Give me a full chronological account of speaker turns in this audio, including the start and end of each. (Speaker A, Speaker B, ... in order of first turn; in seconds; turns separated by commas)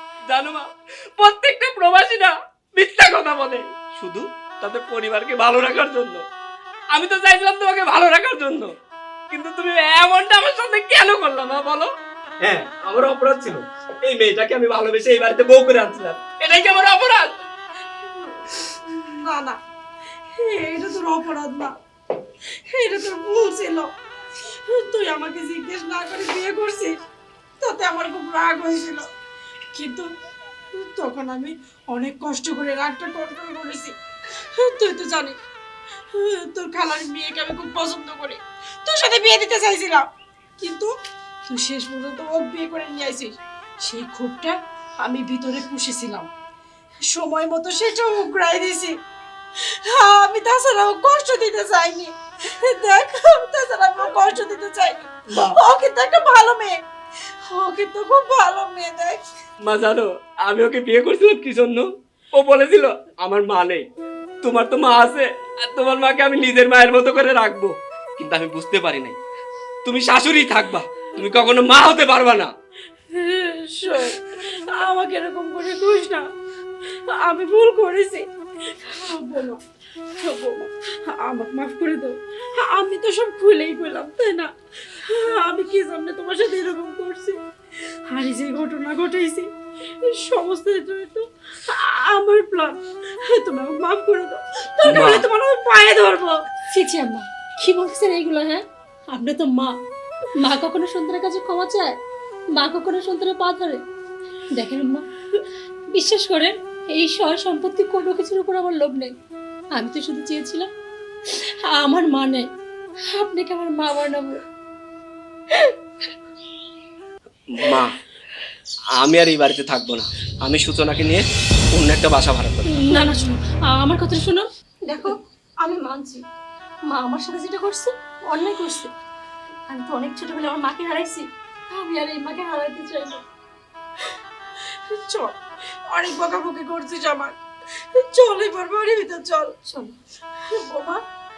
Speaker A: 0.3-6.2, Speaker A: 6.9-8.7, Speaker A: 9.3-11.9, Speaker A: 12.4-17.3, Speaker B: 18.0-19.6, Speaker B: 20.4-21.8, Speaker B: 22.6-23.9, Speaker B: 24.6-27.0, Speaker B: 27.6-29.1, Speaker B: 29.7-30.1, Speaker B: 30.7-33.9, Speaker B: 34.5-35.4, Speaker B: 36.1-40.9, Speaker B: 41.5-46.3, Speaker B: 47.1-49.0, Speaker B: 49.6-56.8, Speaker B: 57.5-59.2, Speaker A: 59.6-63.8, Speaker A: 64.4-69.2, Speaker A: 69.8-72.5, Speaker B: 73.1-76.2, Speaker B: 77.1-79.6, Speaker B: 80.2-87.4, Speaker B: 88.0-96.4, Speaker A: 94.8-95.2, Speaker C: 96.7-99.7, Speaker C: 100.4-102.0, Speaker C: 102.5-103.8, Speaker C: 104.5-105.0, Speaker C: 105.9-109.1, Speaker C: 109.7-110.7, Speaker C: 111.2-112.5, Speaker C: 113.1-114.4, Speaker A: 117.5-118.0, Speaker A: 119.0-123.0, Speaker C: 122.7-126.2, Speaker C: 126.9-128.9, Speaker C: 129.7-133.2, Speaker B: 134.9-135.4, Speaker B: 135.9-137.3, Speaker B: 137.9-139.5, Speaker C: 139.7-139.9, Speaker B: 140.5-141.0